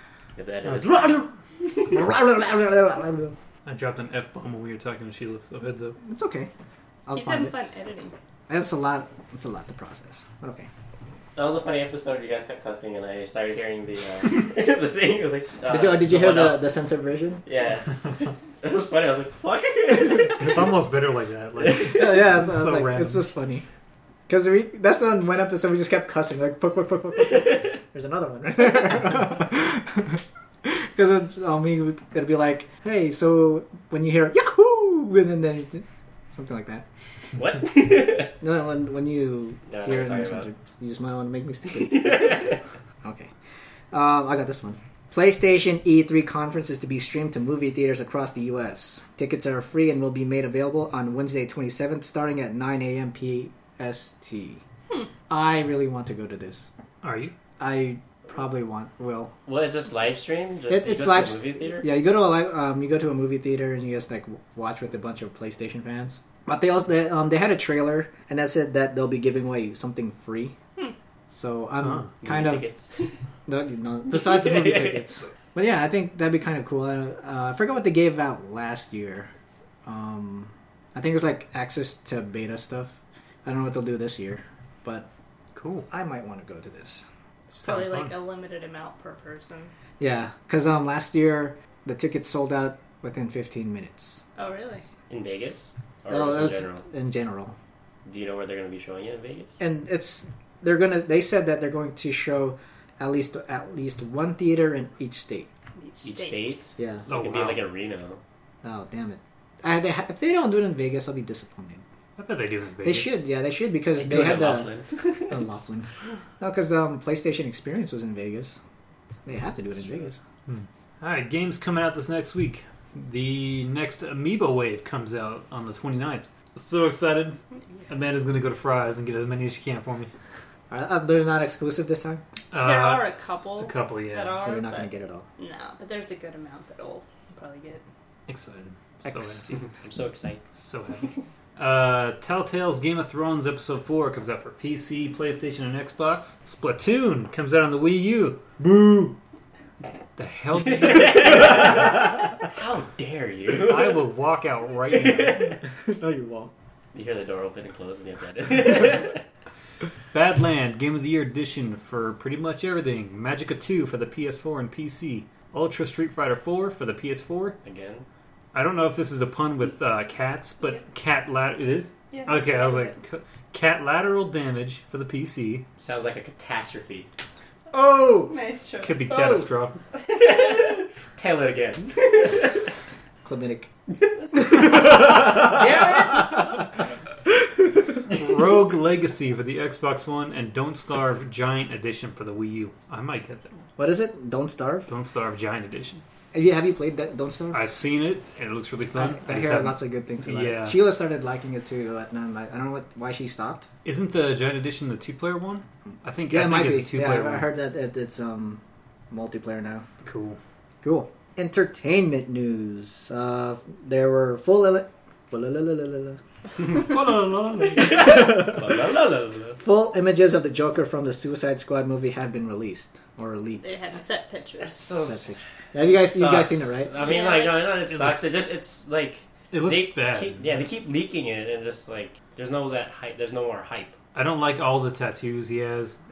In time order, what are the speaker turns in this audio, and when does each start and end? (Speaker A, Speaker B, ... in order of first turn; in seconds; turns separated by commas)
Speaker A: 0.4-1.3, Speaker B: 0.7-1.3, Speaker C: 1.9-3.4, Speaker B: 3.7-6.0, Speaker C: 6.0-6.5, Speaker C: 7.1-7.5, Speaker D: 7.1-8.2, Speaker C: 8.5-10.7, Speaker A: 11.4-16.7, Speaker C: 15.7-17.4, Speaker A: 17.4-20.6, Speaker B: 20.2-23.2, Speaker A: 21.6-21.9, Speaker C: 21.9-23.6, Speaker C: 24.3-36.9, Speaker A: 27.3-27.6, Speaker A: 37.4-38.4, Speaker C: 38.4-43.3, Speaker A: 39.7-40.5, Speaker A: 41.8-42.6, Speaker C: 43.9-54.6, Speaker C: 55.3-56.7, Speaker B: 57.0-57.3, Speaker C: 57.6-59.3, Speaker A: 59.5-61.9, Speaker C: 60.7-70.6, Speaker C: 71.3-72.7, Speaker B: 71.8-72.1, Speaker A: 72.2-73.1, Speaker C: 73.5-79.3, Speaker A: 74.1-75.1, Speaker C: 79.8-85.1, Speaker B: 85.5-85.9, Speaker C: 85.9-87.1, Speaker D: 87.5-89.7, Speaker B: 87.6-88.2, Speaker C: 90.0-94.2, Speaker D: 94.4-94.8, Speaker A: 95.1-96.8, Speaker C: 96.1-97.5, Speaker A: 98.0-99.6, Speaker C: 99.6-105.5, Speaker D: 105.8-106.6, Speaker A: 106.0-108.2, Speaker C: 106.8-107.1, Speaker B: 107.1-107.7, Speaker C: 108.6-111.8, Speaker B: 112.2-113.2, Speaker C: 112.8-114.7, Speaker A: 114.0-115.4, Speaker C: 115.3-115.9, Speaker C: 116.4-118.6, Speaker C: 119.2-120.2, Speaker A: 119.8-120.1, Speaker B: 120.5-127.4, Speaker B: 127.9-130.1, Speaker C: 130.7-132.2, Speaker B: 132.5-134.4, Speaker D: 132.6-137.8, Speaker C: 134.3-135.3, Speaker B: 138.3-139.5, Speaker C: 139.1-139.5, Speaker A: 139.5-140.4, Speaker B: 140.5-148.6, Speaker C: 148.6-149.2, Speaker B: 150.2-152.0, Speaker A: 150.7-154.1, Speaker B: 153.6-155.6, Speaker A: 154.9-155.6, Speaker C: 155.9-156.5, Speaker A: 156.9-159.2, Speaker B: 160.1-167.6, Speaker A: 167.6-168.1, Speaker B: 168.5-175.7, Speaker D: 172.1-173.0, Speaker A: 175.8-177.1, Speaker C: 177.7-178.3, Speaker D: 178.2-179.1, Speaker B: 178.8-179.8, Speaker C: 179.1-179.5, Speaker A: 180.1-182.6, Speaker C: 183.2-183.7, Speaker A: 184.5-186.6, Speaker B: 188.1-193.7, Speaker C: 193.8-194.9, Speaker B: 194.9-196.0, Speaker C: 196.3-197.6, Speaker B: 197.5-200.8, Speaker C: 198.9-203.7, Speaker B: 203.8-207.5, Speaker C: 206.3-209.9, Speaker B: 210.0-210.4, Speaker C: 210.8-216.2, Speaker A: 217.7-219.6, Speaker C: 217.7-218.7, Speaker C: 219.6-223.8, Speaker D: 223.6-225.1, Speaker A: 224.6-234.0, Speaker C: 225.1-226.9, Speaker D: 226.9-227.8, Speaker B: 227.8-228.4, Speaker B: 229.5-230.6, Speaker B: 234.2-236.0